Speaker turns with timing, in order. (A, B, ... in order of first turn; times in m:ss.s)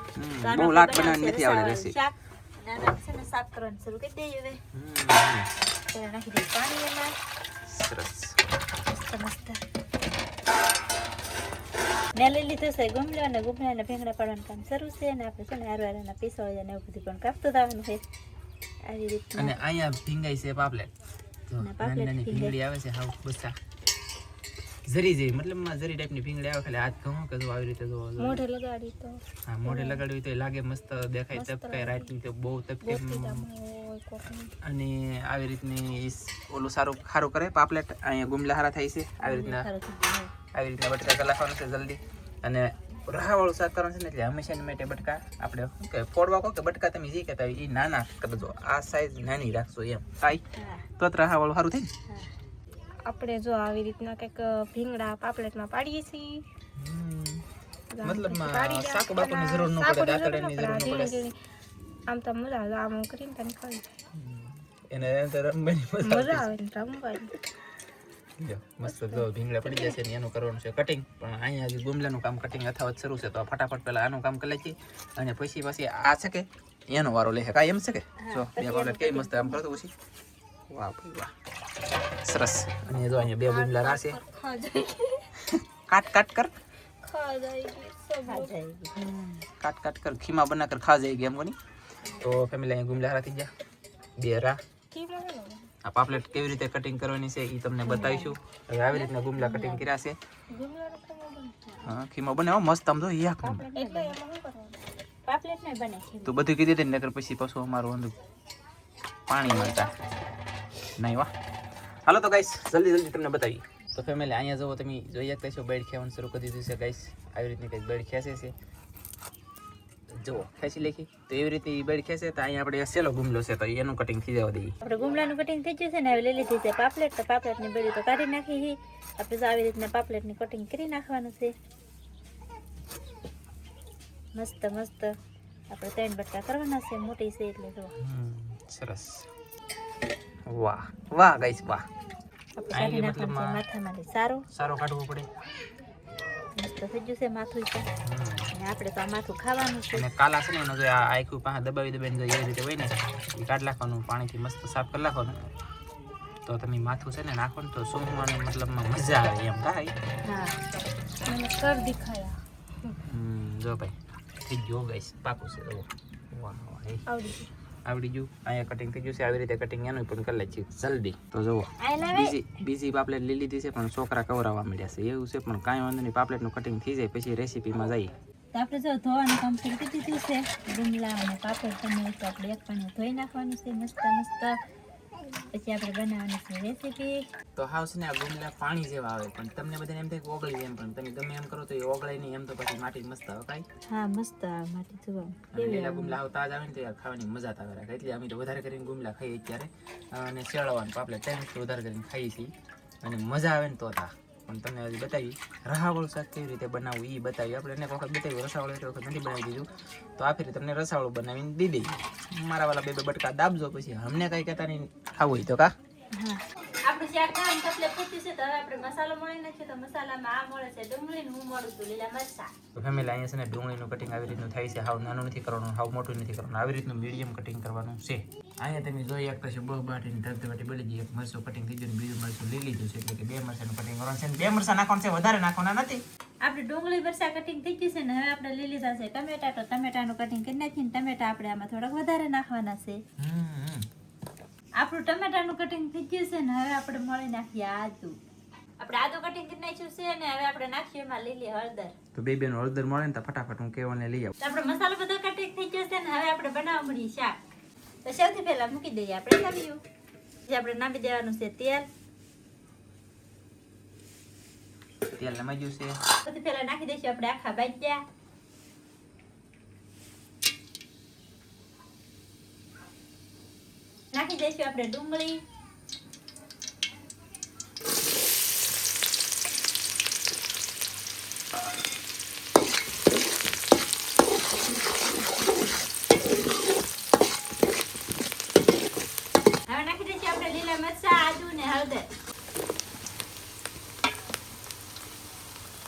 0:00.2-0:02.0 A
0:00.4-0:04.6 B
0:04.7-0:05.5 A
0:05.9-0:07.1 B
0:07.6-0:08.4 A
0:08.9-0:09.6 B
0:12.1-0:18.0 B
0:18.8-0:19.6 B
0:19.4-0:20.9 A
0:21.5-0:23.5 A
0:21.6-0:22.5 B
0:24.9-0:28.4 A
0:28.2-0:30.0 C
0:29.5-0:33.4 A
0:31.3-0:32.1 C
0:32.8-0:34.5 C
0:34.6-0:39.7 A
0:39.2-0:40.3 B
0:40.5-0:50.4 A
0:50.6-0:50.8 B
0:51.0-0:51.9 A
0:53.0-0:56.4 C
0:56.8-0:57.4 A
0:57.9-1:01.3 C
0:58.0-1:01.3 A
1:02.1-1:03.9 C
1:04.1-1:06.5 A
1:06.0-1:07.4 C
1:08.4-1:19.9 A
1:18.2-1:19.6 B
1:20.7-1:21.3 A
1:22.2-1:24.2 A
1:23.2-1:25.3 C
1:25.4-1:26.5 A
1:27.0-1:28.6 C
1:28.3-1:29.4 B
1:29.6-1:31.6 A
1:32.2-1:33.5 A
1:34.2-1:34.6 A
1:34.9-1:35.7 C
1:35.8-1:40.2 A
1:37.8-1:38.3 B
1:39.4-1:39.8 B
1:40.5-1:41.5 C
1:41.8-1:43.6 A
1:43.4-1:44.2 B
1:43.6-1:44.8 C
1:45.3-1:46.4 B
1:46.2-1:48.1 A
1:49.3-1:49.9 A
1:49.4-1:49.9 C
1:51.0-1:51.3 A
1:52.0-1:58.5 A
2:00.1-2:04.7 A
2:04.8-2:11.5 B
2:14.3-2:15.2 B
2:15.7-2:17.9 B
2:18.0-2:19.3 A
2:20.5-2:21.9 A
2:22.6-2:24.5 B
2:22.7-2:23.6 A
2:24.5-2:25.3 A
2:26.6-2:27.9 B
2:28.0-2:28.5 A
2:28.5-2:30.1 B
2:29.9-2:35.4 A
2:36.4-2:39.9 A
2:40.3-2:40.6 B
2:41.2-2:43.0 C
2:43.0-2:47.1 A
2:47.1-2:47.5 C
2:47.8-2:58.1 A
2:51.8-2:52.4 B
2:58.5-3:04.6 B
3:05.5-3:07.2 B
3:07.6-3:13.6 A
3:13.9-3:16.2 B
3:15.5-3:29.7 A
3:30.2-3:35.7 A
3:36.2-3:42.5 B
3:42.8-3:56.0 A
3:56.4-4:03.0 B
4:03.2-4:03.9 A
4:04.8-4:08.2 B
4:08.8-4:12.0 B
4:12.2-4:14.3 A
4:14.4-4:17.4 B
4:18.0-4:19.8 B
4:20.5-4:21.8 B
4:25.2-4:26.0 A
4:26.2-4:28.0 B
4:34.1-4:35.4 B
4:49.7-4:52.1 B